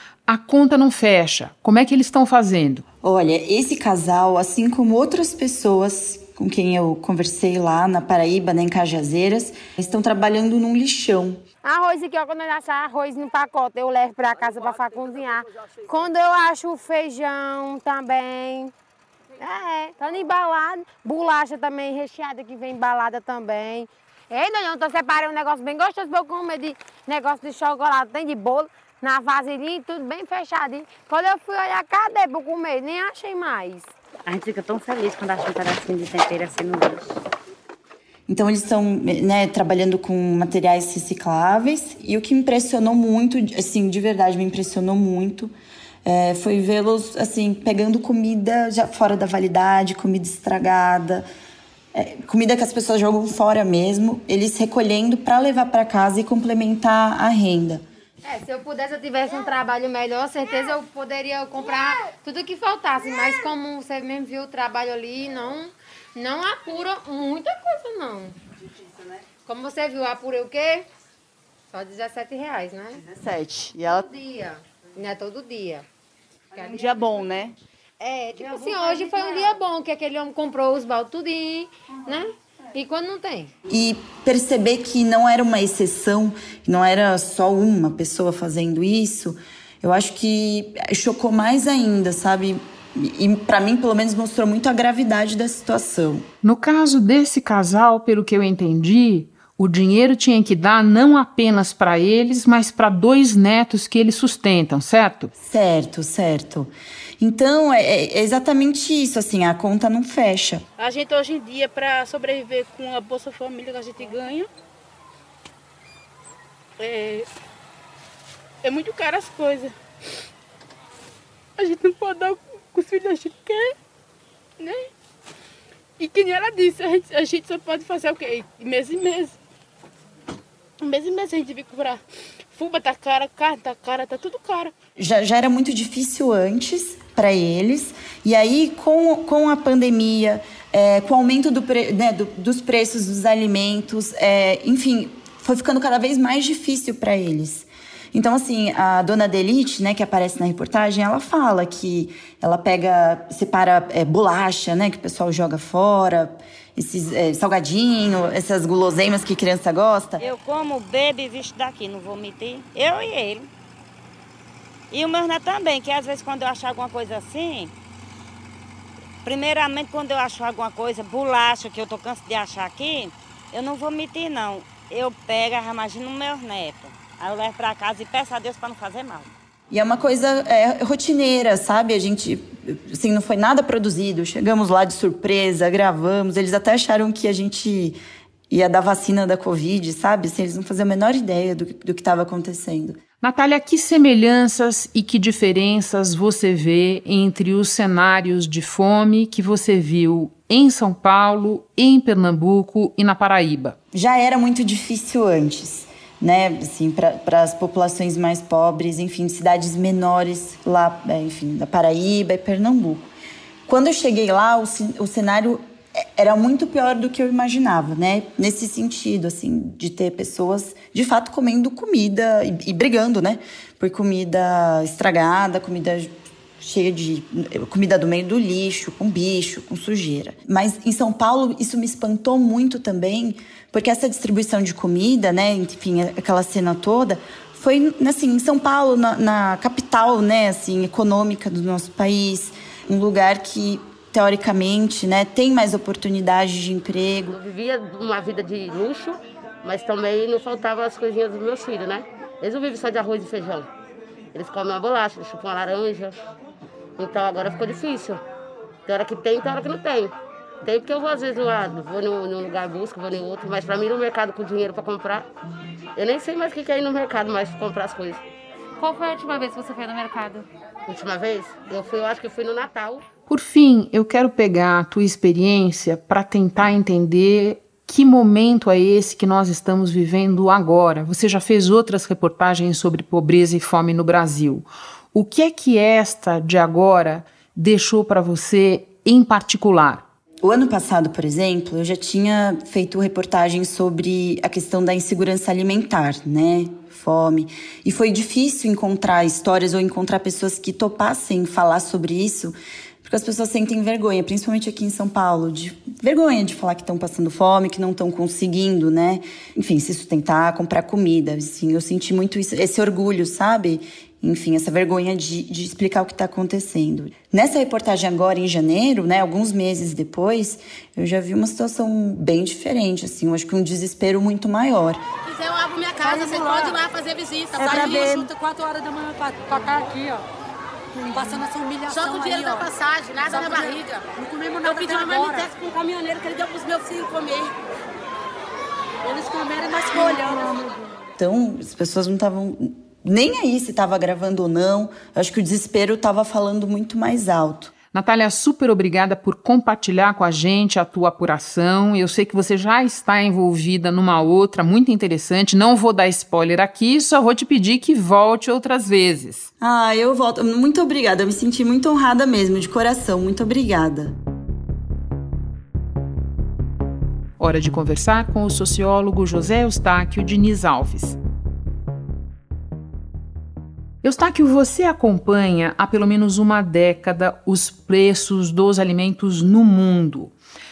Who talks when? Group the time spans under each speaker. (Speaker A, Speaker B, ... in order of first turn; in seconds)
Speaker A: 0.3-2.8, 96.4-105.3, 193.2-203.8, 273.3-290.0, 347.9-359.5, 367.4-371.2, 374.0-380.3
Speaker B: 3.0-11.4, 38.3-45.5, 46.0-51.2, 51.9-57.8, 83.7-96.2, 105.4-110.6, 135.0-160.2, 179.7-188.0, 188.5-193.0, 203.9-213.1, 213.7-247.4, 290.4-325.0, 341.2-347.7, 359.6-364.1
Speaker C: 11.6-18.7, 19.4-33.9, 58.2-68.4, 69.4-70.8, 71.7-73.0, 73.9-75.8, 76.5-76.9, 78.0-83.5, 268.8-270.4
Speaker D: 34.3-37.1, 160.2-163.5, 164.9-167.7, 169.2-179.3
Speaker E: 110.8-114.5, 116.8-117.3, 118.6-119.7, 121.6-123.7, 124.6-124.9, 126.0-129.3, 130.8-132.0, 132.5-134.7, 331.9-332.6, 333.3-333.7, 334.6-335.5
Speaker F: 247.3-253.7, 254.3-256.1, 257.0-258.2, 258.9-260.1, 260.6-265.2, 265.9-268.2, 270.9-273.0
Speaker G: 325.3-330.2, 331.1-337.5, 339.0-340.5